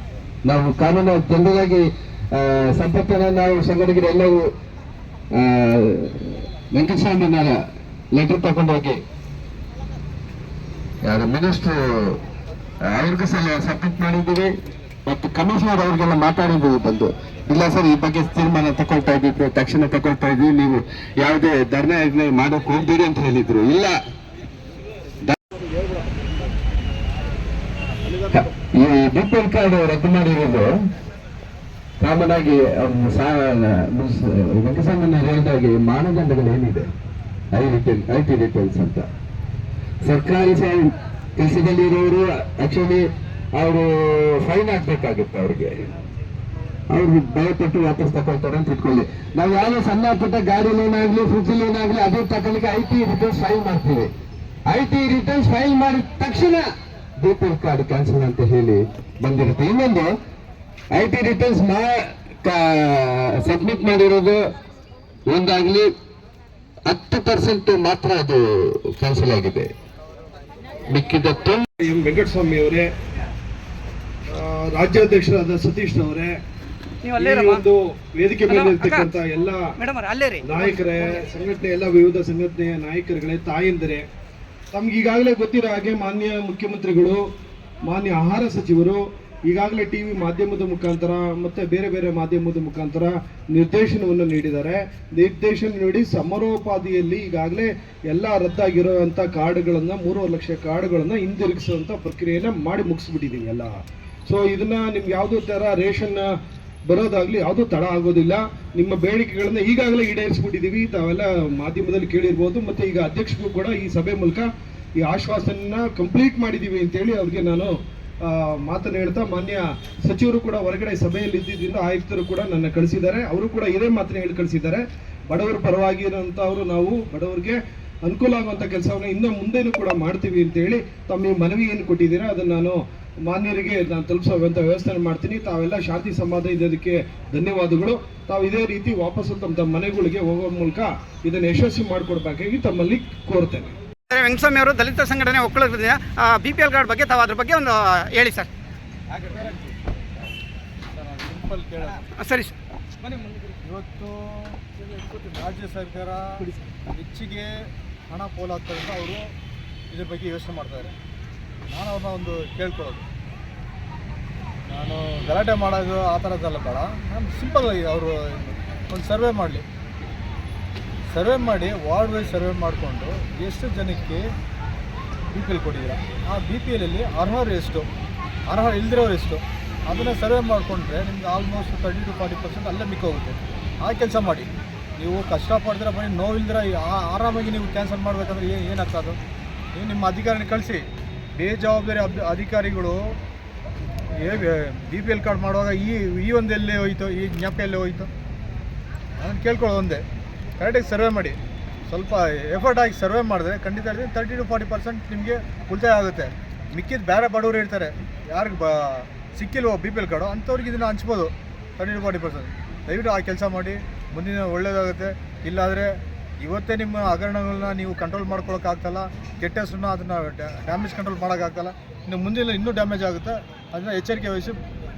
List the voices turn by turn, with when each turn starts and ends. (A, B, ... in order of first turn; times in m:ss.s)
0:00.4-0:04.5 A
0:05.3-0:07.6 A
0:08.1-0:09.0 A
0:11.0-0:12.2 A
0:12.8-0:14.5 A
0:15.1-0:23.9 A
0:25.2-0:25.5 A
0:28.3-0:30.7 A
0:32.0-0:36.9 A
0:37.5-0:39.1 A
0:40.0-0:45.9 A
0:46.9-0:54.1 A
0:54.7-0:56.7 A
0:57.2-1:00.1 A
1:00.9-1:04.4 A
1:05.3-1:05.9 A
1:06.9-1:09.7 A
1:10.9-1:11.7 A
1:11.8-1:12.9 B
1:14.3-1:16.3 B
1:17.0-1:17.6 C
1:17.2-1:19.8 B
1:18.5-1:19.1 C
1:19.8-1:21.0 C
1:20.4-1:24.1 B
1:24.7-1:27.2 B
1:27.8-1:46.4 B
1:46.9-2:23.8 B
2:24.1-2:28.5 C
2:29.1-2:29.8 D
2:30.9-2:32.0 D
2:32.2-2:32.5 C
2:33.5-2:39.3 D
2:39.9-2:40.9 D
2:41.7-2:43.0 D
2:44.7-2:49.6 D
2:51.1-2:54.2 D
2:55.3-2:57.9 D
2:58.5-3:09.2 D
3:09.7-3:13.0 D
3:14.2-3:18.1 D
3:19.2-3:20.0 D
3:20.6-3:44.6 D